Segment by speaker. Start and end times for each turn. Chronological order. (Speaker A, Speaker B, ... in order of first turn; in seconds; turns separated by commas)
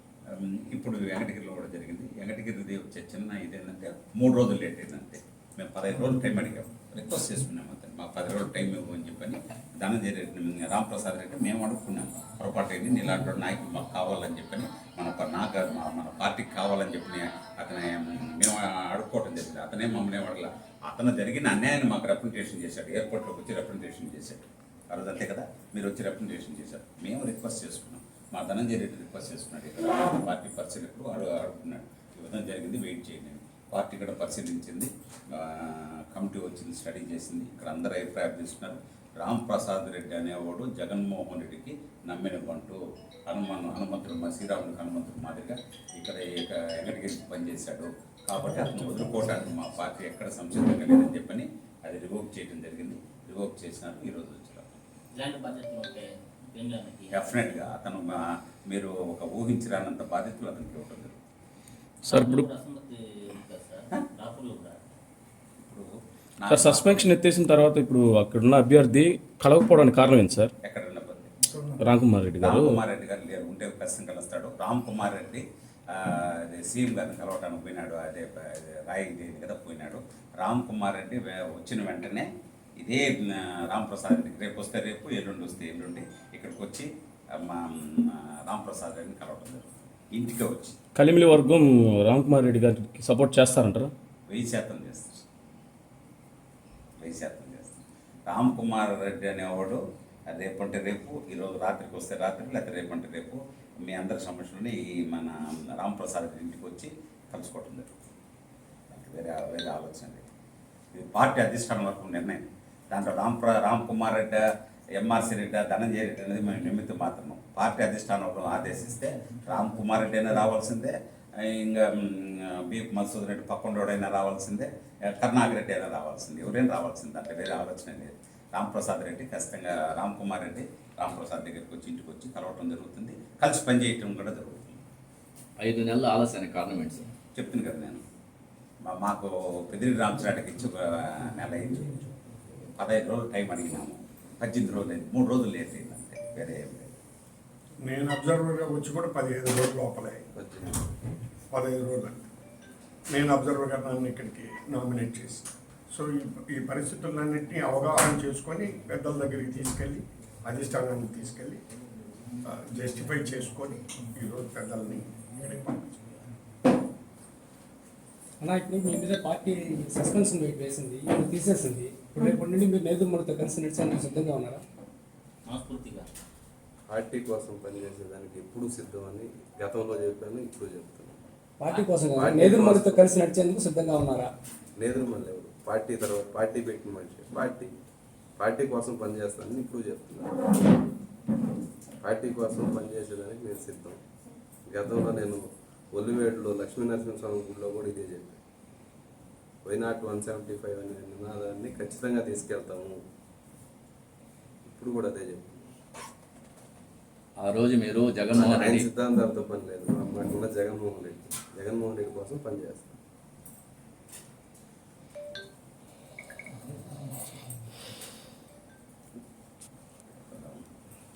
Speaker A: 0.3-54.7, Speaker B: 55.1-57.4, Speaker A: 57.1-61.1, Speaker C: 62.0-62.5, Speaker B: 62.1-64.8, Speaker A: 65.6-65.9, Speaker A: 66.4-67.2, Speaker C: 66.5-70.5, Speaker A: 70.7-71.3, Speaker C: 71.8-72.8, Speaker A: 72.4-82.3, Speaker A: 82.8-90.8, Speaker C: 91.0-93.9, Speaker A: 94.3-95.1, Speaker A: 97.0-99.8, Speaker A: 100.3-107.9, Speaker A: 108.9-110.2, Speaker A: 110.9-114.4, Speaker A: 115.0-134.8, Speaker D: 135.6-137.1, Speaker A: 137.3-138.0, Speaker A: 138.9-142.0, Speaker A: 142.8-146.9, Speaker E: 147.8-150.3, Speaker F: 150.4-150.8, Speaker E: 151.5-152.2, Speaker E: 153.1-161.6, Speaker E: 162.4-166.0, Speaker G: 168.4-174.6, Speaker B: 175.5-176.1, Speaker F: 176.9-181.2, Speaker G: 181.6-184.3, Speaker F: 182.1-183.2, Speaker F: 184.8-187.7, Speaker F: 188.4-190.4, Speaker F: 192.0-194.0, Speaker F: 194.7-195.4, Speaker F: 195.9-198.4, Speaker F: 199.7-203.0, Speaker F: 204.7-205.7, Speaker D: 207.4-208.9, Speaker F: 208.3-213.0, Speaker A: 220.3-220.6